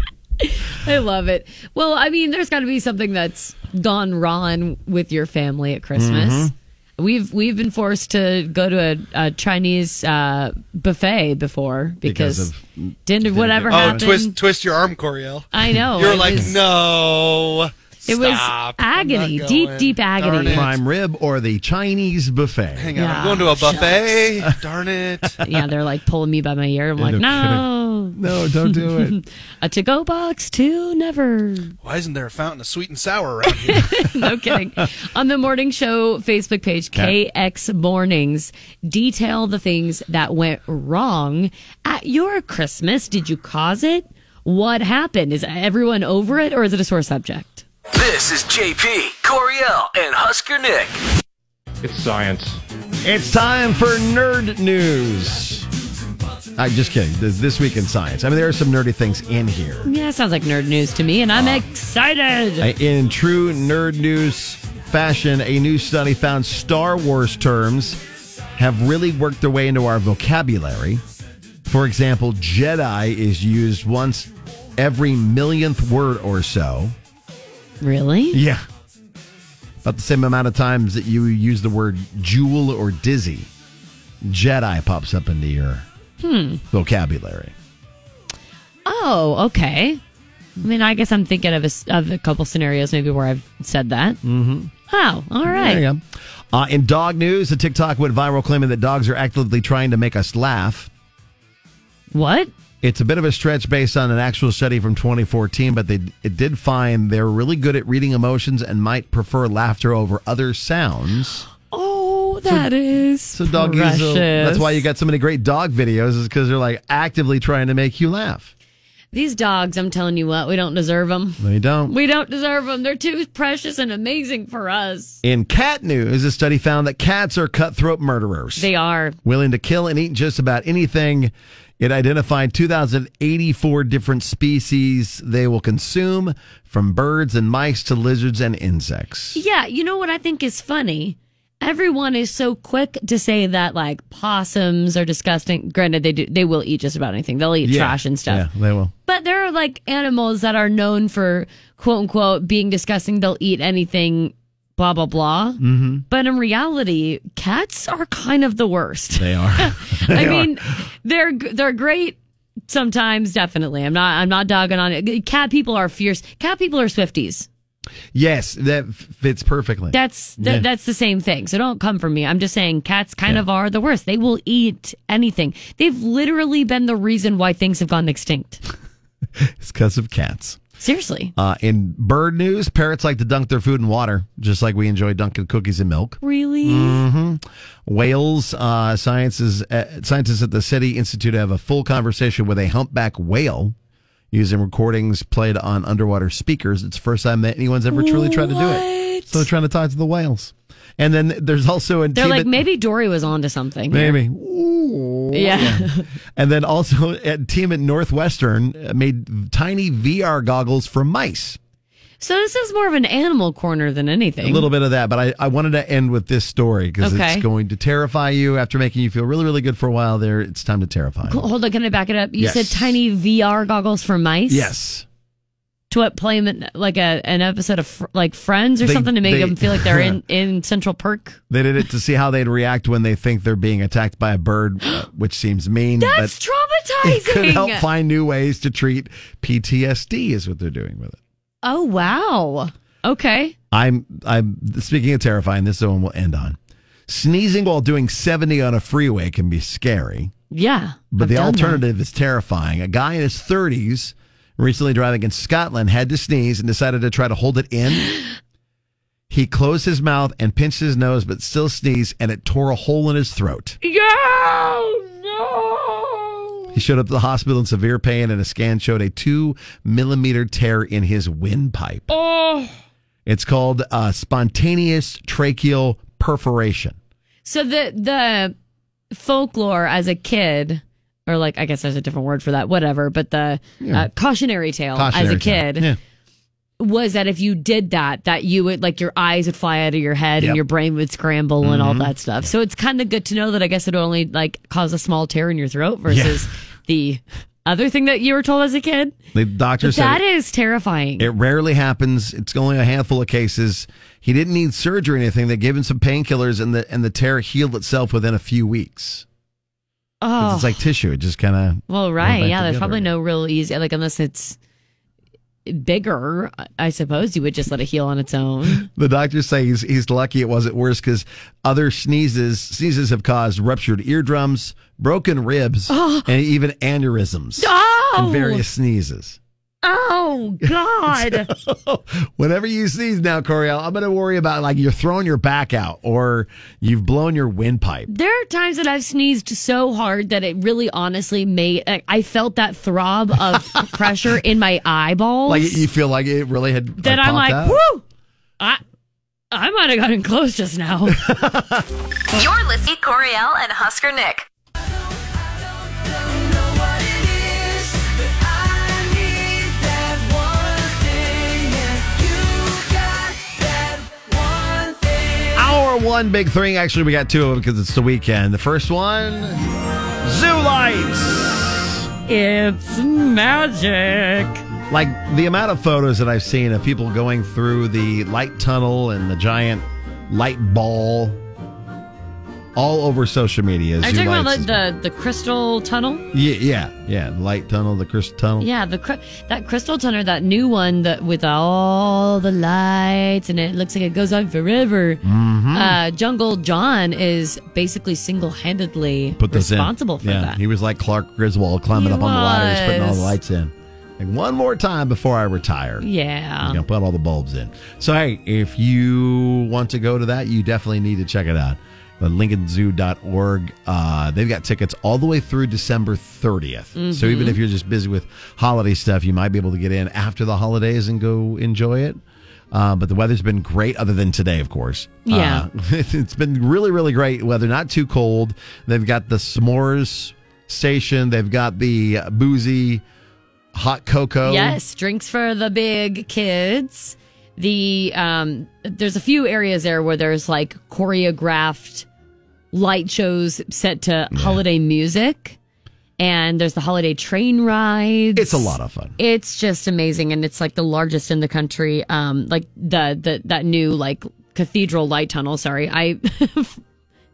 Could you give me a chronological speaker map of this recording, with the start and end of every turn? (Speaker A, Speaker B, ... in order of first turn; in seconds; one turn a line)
Speaker A: 0.4-12.5
Speaker B: 6.0-6.5
Speaker B: 12.0-14.2
Speaker A: 13.1-14.3
Speaker C: 13.7-20.7
Speaker A: 15.5-16.6
Speaker B: 16.0-16.5
Speaker A: 18.1-20.7
Speaker B: 20.5-23.0
Speaker C: 22.8-25.4
Speaker A: 23.0-24.2
Speaker A: 25.4-31.8
Speaker B: 27.0-29.2
Speaker C: 31.8-33.9
Speaker A: 33.5-47.6
Speaker D: 47.9-51.0
Speaker B: 53.0-55.7
Speaker B: 56.6-59.9
Speaker A: 59.9-62.7
Speaker B: 61.3-61.6
Speaker B: 62.6-68.0
Speaker B: 68.6-71.0
Speaker B: 71.7-77.0
Speaker A: 77.8-78.4
Speaker B: 78.3-78.6
Speaker B: 79.8-83.5
Speaker B: 84.2-85.9
Speaker A: 86.2-86.6
Speaker B: 86.7-87.5
Speaker A: 88.9-90.0
Speaker A: 90.6-94.2
Speaker B: 94.2-94.7
Speaker A: 94.9-95.8
Speaker B: 95.5-100.9
Speaker A: 102.1-102.5
Speaker B: 102.8-111.5
Speaker A: 111.7-114.8
Speaker B: 113.3-118.5
Speaker A: 119.1-125.2
Speaker B: 121.4-122.0
Speaker B: 125.2-128.7
Speaker A: 128.6-129.2
Speaker B: 129.2-139.4
Speaker A: 139.3-148.5
Speaker B: 147.6-148.9
Speaker A: 149.1-162.2
Speaker B: 155.6-156.1
Speaker B: 159.2-160.6
Speaker A: 162.7-167.5
Speaker B: 168.1-170.7
Speaker A: 169.9-178.6
Speaker B: 179.4-180.6
Speaker A: 180.8-181.3
Speaker B: 181.4-193.8
Speaker A: 186.2-187.0
Speaker B: 194.3-202.6
Speaker A: 197.9-199.4
Speaker A: 202.2-204.2
Speaker B: 203.9-211.6
Speaker A: 205.3-206.1
Speaker A: 212.2-214.7
Speaker B: 214.4-221.5
Speaker A: 217.0-217.5
Speaker A: 221.3-224.7
Speaker B: 222.4-223.0
Speaker B: 224.5-225.1
Speaker A: 225.9-231.4
Speaker B: 228.8-230.2
Speaker B: 231.5-236.3
Speaker A: 236.0-237.9
Speaker B: 237.0-241.2
Speaker A: 241.6-243.6
Speaker B: 243.7-246.6
Speaker B: 247.1-250.3
Speaker A: 250.5-251.8
Speaker B: 251.1-258.1
Speaker B: 259.3-263.8
Speaker A: 263.8-266.4
Speaker B: 266.7-272.1
Speaker A: 272.1-272.7
Speaker B: 273.3-277.0
Speaker A: 277.5-278.5
Speaker A: 279.1-285.9
Speaker B: 283.8-284.1
Speaker B: 284.9-286.0
Speaker A: 286.8-299.2
Speaker B: 291.6-292.1
Speaker B: 296.1-296.5
Speaker B: 299.3-300.2
Speaker A: 299.8-301.3
Speaker B: 301.2-309.3
Speaker A: 310.2-310.8
Speaker B: 310.4-313.1
Speaker A: 311.9-314.6
Speaker A: 315.7-318.9
Speaker B: 318.8-329.4
Speaker A: 325.9-326.3
Speaker A: 327.6-328.6
Speaker A: 329.8-331.5
Speaker B: 331.1-338.1
Speaker A: 338.1-345.9
Speaker B: 345.5-347.8
Speaker A: 347.0-348.0
Speaker A: 349.5-351.2
Speaker B: 351.1-351.9
Speaker E: 352.3-354.5
Speaker B: 365.5-369.6
Speaker B: 370.2-372.1
Speaker A: 372.3-374.6
Speaker B: 374.9-381.4
Speaker B: 382.8-384.8
Speaker A: 384.0-386.3
Speaker B: 386.3-388.7
Speaker A: 388.6-400.6
Speaker B: 395.2-396.0
Speaker B: 399.4-406.1
Speaker A: 401.9-403.4
Speaker A: 406.0-406.8
Speaker B: 406.6-422.2
Speaker A: 416.9-417.6
Speaker B: 422.7-433.0
Speaker A: 425.3-425.6
Speaker B: 433.7-434.8
Speaker A: 434.4-442.1
Speaker A: 442.7-445.6
Speaker B: 444.3-444.6
Speaker A: 446.2-456.8
Speaker B: 448.4-449.2